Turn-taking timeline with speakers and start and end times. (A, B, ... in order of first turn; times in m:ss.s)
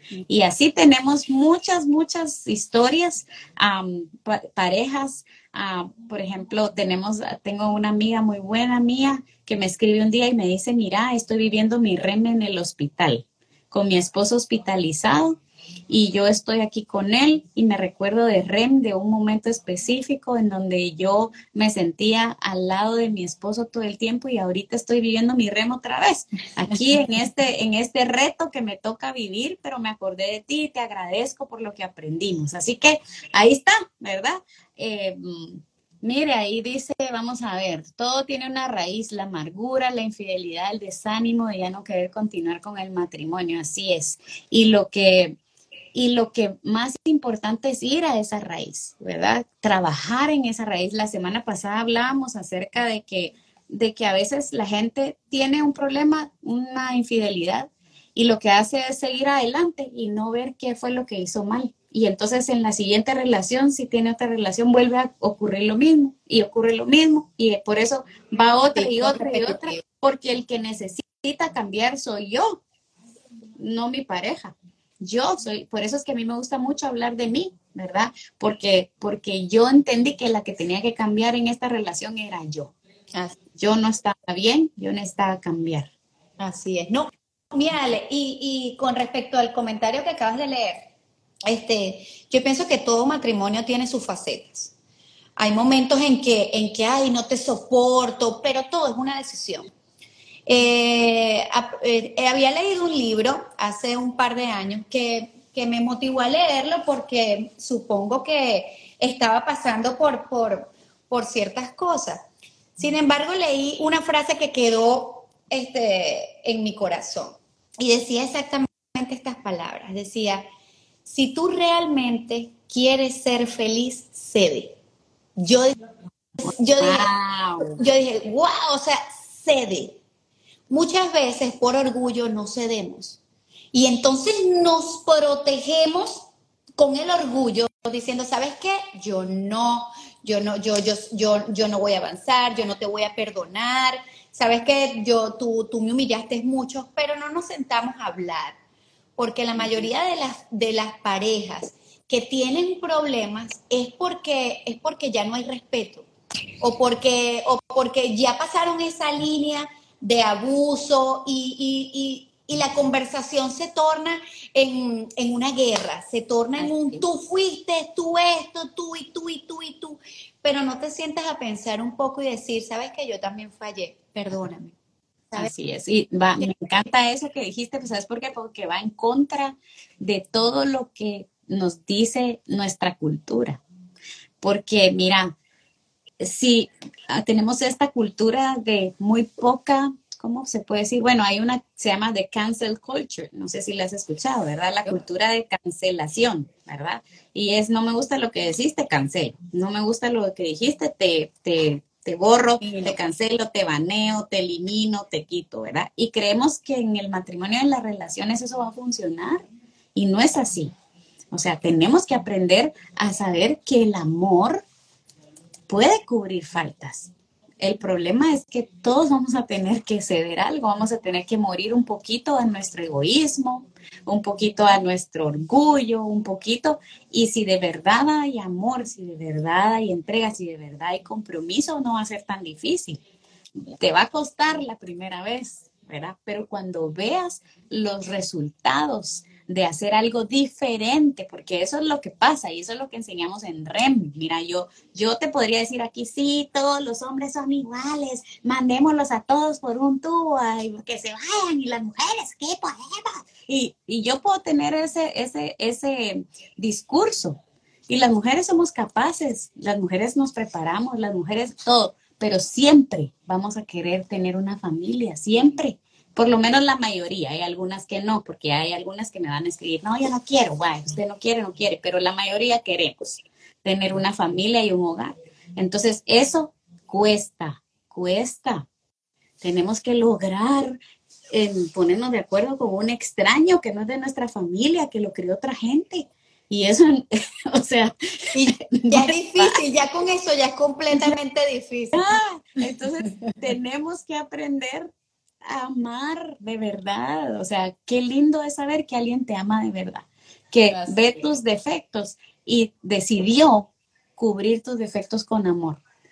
0:00.3-0:15.4 A
0:15.9-0:45.4 A
0:45.9-1:12.6 A
1:08.7-1:09.8 B
1:13.6-1:22.7 A
1:23.6-1:25.9 A
1:26.4-1:30.9 B
1:31.4-1:34.7 B
1:35.4-1:39.7 B
1:40.5-1:52.2 B
1:52.8-2:00.4 B
2:01.0-2:04.8 B
2:05.4-2:05.8 B
2:06.4-2:07.1 B
2:06.8-2:07.8 A
2:07.7-2:10.0 B
2:10.7-2:13.2 B
2:13.7-2:16.3 B
2:16.8-2:28.6 B
2:29.2-2:36.1 B
2:36.6-2:54.7 B
2:46.6-2:47.0 A
2:55.4-3:03.6 A
3:04.4-3:05.3 A
3:06.2-3:29.4 A
3:22.6-3:23.0 B
3:29.9-3:30.7 A
3:31.3-3:34.6 A
3:35.7-3:53.0 A
3:53.7-4:38.6 A
4:39.4-4:40.8 A
4:41.3-4:48.0 A
4:48.3-4:52.1 B
4:48.5-4:49.6 A
4:51.9-4:54.9 A
4:55.4-5:05.8 A
5:00.7-5:01.2 B